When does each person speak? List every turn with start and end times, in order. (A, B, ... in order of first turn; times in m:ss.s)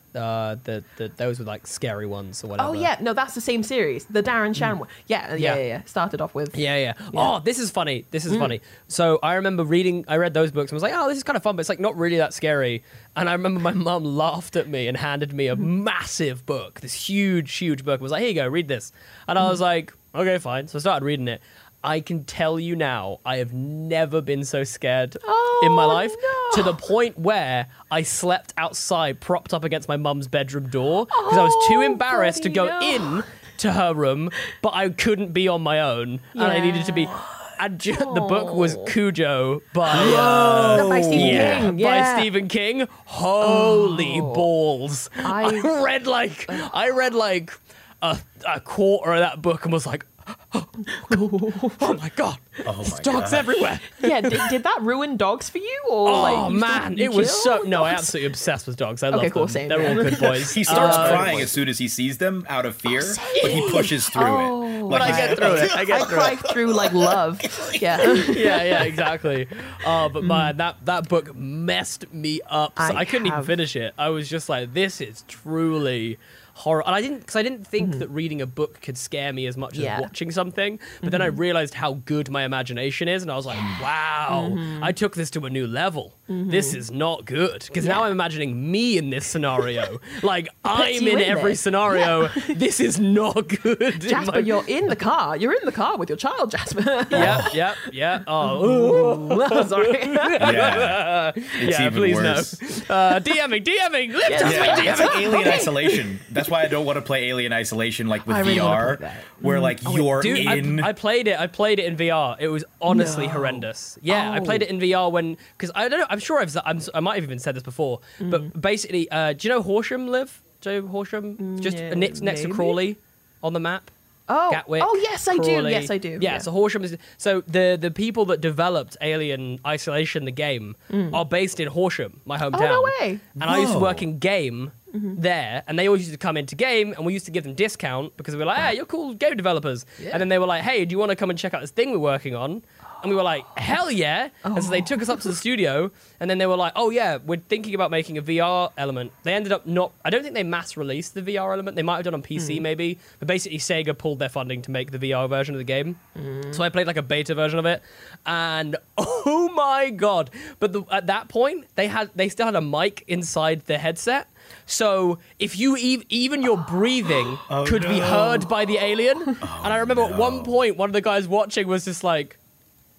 0:00.1-0:02.9 A
0:02.6-0:06.6 B
0:06.5-0:51.2 A
0:08.3-0:08.6 B
0:25.2-0:26.8 B
0:31.1-0:33.2 B
0:36.3-0:38.9 B
0:39.9-0:41.7 C
0:39.9-0:42.3 B
0:43.4-0:44.4 B
0:45.2-0:45.7 B
0:50.9-0:52.0 B
0:51.8-0:54.5 A
0:52.6-0:53.6 C
0:54.0-0:58.1 B
0:56.0-1:01.4 A
0:59.1-1:01.5 B
0:59.8-1:08.3 C
1:02.9-1:08.6 B
1:03.3-1:03.8 A
1:04.9-1:06.3 A
1:08.3-1:34.6 A
1:10.2-1:10.5 B
1:12.8-1:13.6 B
1:17.8-1:18.0 B
1:19.7-1:20.1 B
1:21.0-1:21.4 B
1:24.3-1:24.9 B
1:26.3-1:26.8 B
1:27.8-1:28.0 B
1:30.7-1:32.6 B
1:34.0-1:37.6 B
1:37.1-1:45.6 A
1:37.1-1:37.5 C
1:38.4-1:40.7 B
1:40.4-1:42.6 C
1:44.2-1:46.1 B
1:44.4-1:50.9 C
1:48.3-1:49.8 B
1:49.8-2:03.9 A
1:52.9-1:54.6 B
1:58.2-1:58.5 B
2:01.4-2:02.8 B
2:04.3-2:06.5 B
2:04.5-2:52.4 A
2:10.9-2:11.2 B
2:12.5-2:13.6 B
2:13.4-2:14.0 C
2:14.9-2:15.2 B
2:20.0-2:20.2 B
2:24.4-2:25.4 B
2:32.4-2:32.6 B
2:36.2-2:36.6 B
2:47.5-2:48.5 C
2:49.4-2:50.5 C